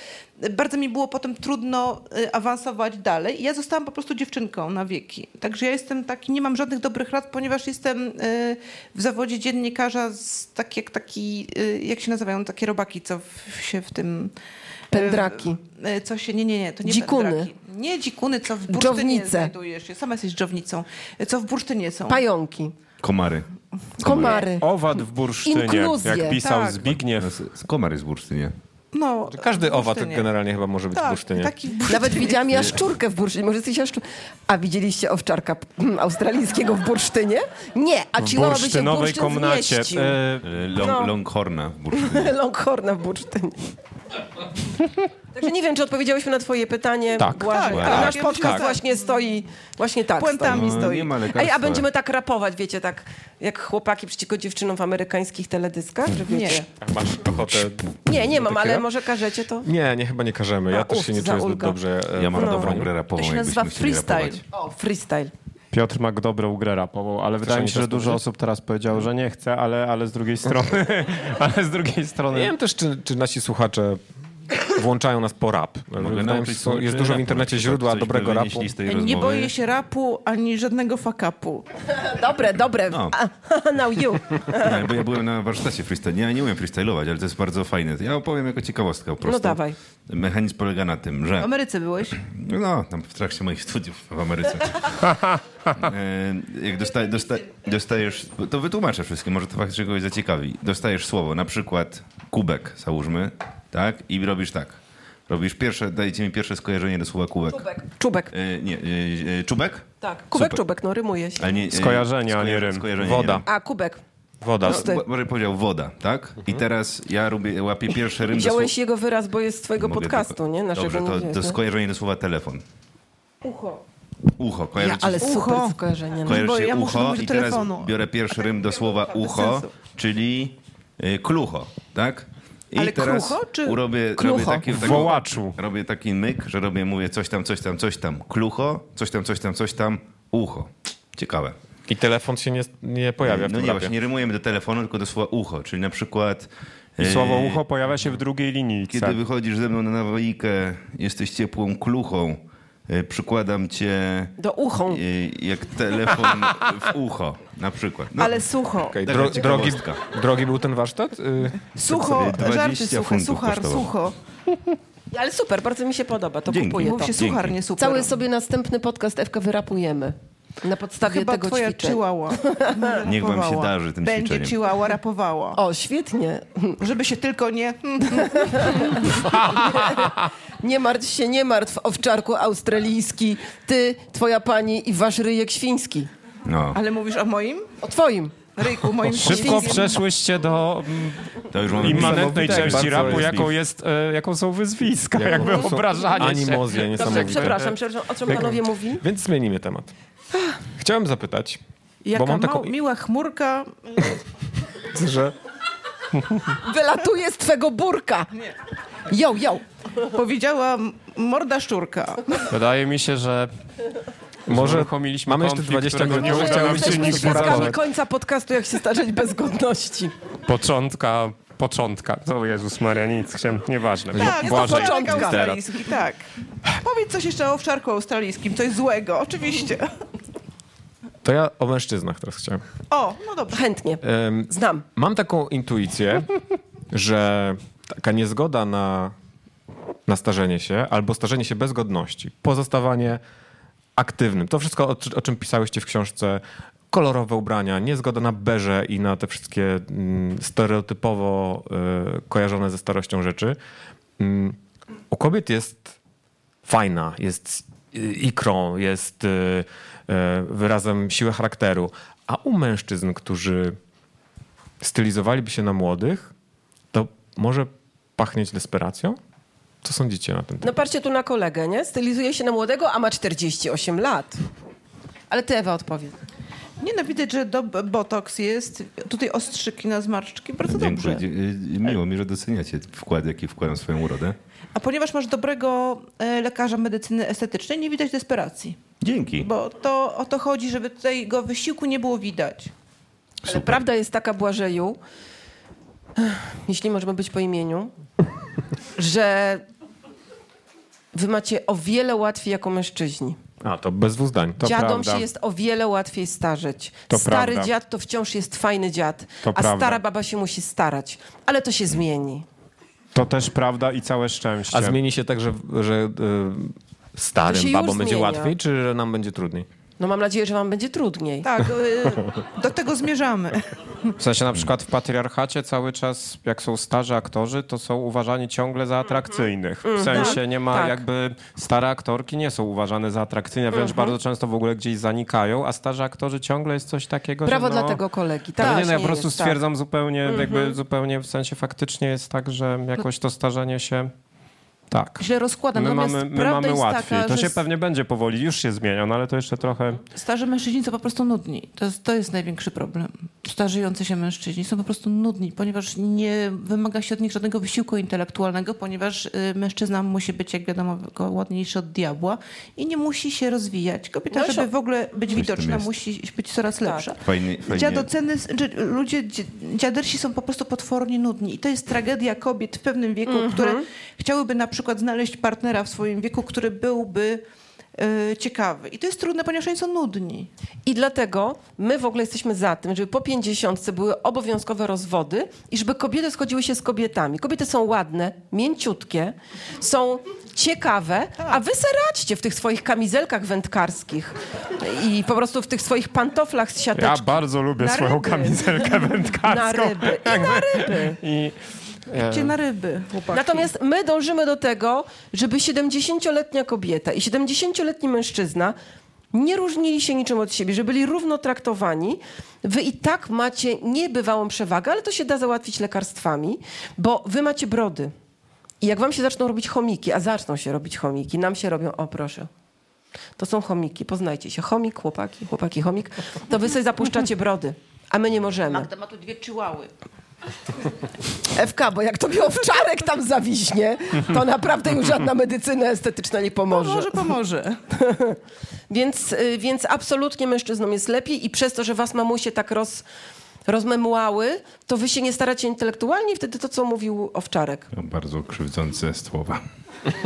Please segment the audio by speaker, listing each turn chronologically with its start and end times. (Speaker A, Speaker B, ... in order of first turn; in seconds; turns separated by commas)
Speaker A: 0.4-14.3, Speaker A: 14.9-22.2, Speaker B: 14.9-15.6, Speaker B: 16.8-17.5, Speaker B: 18.7-19.5, Speaker B: 22.1-22.8, Speaker C: 23.0-23.5, Speaker B: 24.0-24.7, Speaker C: 24.0-24.5, Speaker A: 24.1-24.4, Speaker D: 24.5-27.4, Speaker B: 25.4-26.4, Speaker A: 26.4-26.9, Speaker C: 27.1-28.6, Speaker A: 28.9-30.3, Speaker E: 29.3-31.5, Speaker A: 30.9-32.7, Speaker B: 31.9-40.2, Speaker D: 38.2-40.5, Speaker C: 40.4-42.3, Speaker B: 40.8-41.1, Speaker B: 41.9-43.7, Speaker B: 45.3-56.7, Speaker A: 47.4-48.9, Speaker E: 47.5-48.7, Speaker C: 47.7-48.2, Speaker A: 50.2-51.1, Speaker C: 50.4-51.9, Speaker A: 56.3-56.6, Speaker E: 56.8-58.9, Speaker B: 58.1-59.7, Speaker E: 59.6-62.9, Speaker B: 60.7-61.8, Speaker C: 62.1-64.4, Speaker B: 62.3-62.8, Speaker A: 63.1-64.4, Speaker B: 64.5-65.3, Speaker D: 65.7-72.5, Speaker E: 67.4-68.2, Speaker E: 72.3-74.0, Speaker E: 74.6-78.7, Speaker C: 76.0-79.5, Speaker A: 78.8-81.7, Speaker B: 81.9-84.9, Speaker C: 82.9-83.1, Speaker C: 84.5-91.5, Speaker B: 89.2-89.8, Speaker A: 91.4-92.2, Speaker C: 92.1-107.8, Speaker B: 107.5-108.3, Speaker C: 108.3-110.6, Speaker B: 110.0-111.6, Speaker C: 111.4-113.5, Speaker D: 111.7-112.9, Speaker E: 113.0-113.5, Speaker B: 113.5-114.0, Speaker E: 114.4-114.9, Speaker B: 114.6-115.0, Speaker C: 114.6-118.7, Speaker B: 118.3-121.6, Speaker C: 119.8-122.6, Speaker B: 123.4-123.8, Speaker C: 124.4-125.3, Speaker A: 124.8-129.7, Speaker B: 124.9-126.5, Speaker C: 126.2-141.6, Speaker A: 132.8-133.8, Speaker B: 134.2-134.7, Speaker D: 134.7-135.6, Speaker E: 141.9-143.9, Speaker C: 143.2-147.6, Speaker D: 147.0-149.2, Speaker C: 148.9-154.4, Speaker B: 154.4-155.0, Speaker C: 154.9-158.4, Speaker A: 158.2-159.6, Speaker E: 158.9-162.0, Speaker C: 159.0-160.1, Speaker A: 161.7-164.2, Speaker C: 161.9-163.9, Speaker B: 165.1-167.2, Speaker C: 166.5-167.6, Speaker A: 166.8-168.2, Speaker B: 167.8-173.0, Speaker A: 171.0-175.6, Speaker C: 173.0-174.6, Speaker B: 175.6-176.8, Speaker A: 176.8-179.3, Speaker B: 178.2-186.1, Speaker D: 179.4-180.1, Speaker C: 186.4-186.8, Speaker A: 186.7-187.7, Speaker B: 187.8-188.4, Speaker A: 188.6-190.0, Speaker D: 189.0-197.7, Speaker B: 189.2-189.9, Speaker C: 191.5-193.5, Speaker E: 191.7-193.5, Speaker E: 195.1-197.7, Speaker B: 196.9-199.0, Speaker E: 198.3-199.9, Speaker E: 200.8-201.6, Speaker A: 202.1-204.2, Speaker E: 202.1-202.7, Speaker E: 204.8-205.4, Speaker B: 206.5-208.3, Speaker B: 209.1-209.6, Speaker A: 210.0-212.5, Speaker D: 212.5-213.5, Speaker D: 214.5-217.8, Speaker E: 214.5-217.8, Speaker B: 216.1-220.1, Speaker D: 220.4-225.6, Speaker A: 224.1-229.9, Speaker B: 224.2-225.5, Speaker E: 231.2-232.6, Speaker A: 232.9-233.7, Speaker B: 233.5-234.8, Speaker E: 234.0-236.3, Speaker E: 236.9-239.2, Speaker E: 240.1-243.2, Speaker E: 244.0-253.6, Speaker E: 254.2-254.6, Speaker E: 255.1-256.0, Speaker E: 256.6-263.8, Speaker E: 264.8-266.3, Speaker E: 266.9-269.2, Speaker E: 269.8-270.7, Speaker B: 270.6-274.4, Speaker B: 275.3-276.2, Speaker A: 276.8-281.2, Speaker C: 280.7-284.4, Speaker A: 284.8-288.8, Speaker C: 289.0-289.5, Speaker A: 289.4-292.7, Speaker C: 293.5-293.8, Speaker B: 293.5-295.0, Speaker B: 296.2-297.9, Speaker B: 299.0-299.6, Speaker B: 301.1-303.4, Speaker E: 303.6-304.7, Speaker D: 304.6-305.3, Speaker B: 304.6-312.5, Speaker D: 307.1-307.7, Speaker D: 309.4-310.0, Speaker D: 313.1-315.0, Speaker E: 314.7-319.7, Speaker B: 317.5-318.5, Speaker B: 320.0-321.5, Speaker A: 321.4-324.1, Speaker D: 324.2-338.0, Speaker B: 329.8-331.0, Speaker A: 330.1-330.4, Speaker B: 333.7-334.1, Speaker B: 337.4-339.6, Speaker D: 338.6-344.1, Speaker B: 340.3-340.8, Speaker D: 344.9-345.2, Speaker A: 345.2-347.6, Speaker D: 345.8-350.0, Speaker A: 350.1-377.4, Speaker B: 364.3-364.7, Speaker C: 365.3-365.9, Speaker B: 366.8-367.1, Speaker C: 367.2-368.1, Speaker B: 373.3-373.9, Speaker A: 378.0-380.5, Speaker B: 380.9-397.4, Speaker D: 397.0-401.6, Speaker A: 397.8-399.2, Speaker B: 399.4-401.2, Speaker D: 402.1-402.5, Speaker A: 402.1-403.7, Speaker B: 403.3-408.8, Speaker B: 409.3-418.1, Speaker B: 418.8-422.5, Speaker B: 423.4-428.9, Speaker A: 428.7-429.9, Speaker B: 431.5-437.2, Speaker A: 436.7-437.8, Speaker B: 437.9-438.4, Speaker B: 438.9-443.1, Speaker B: 443.7-447.9, Speaker C: 447.9-449.6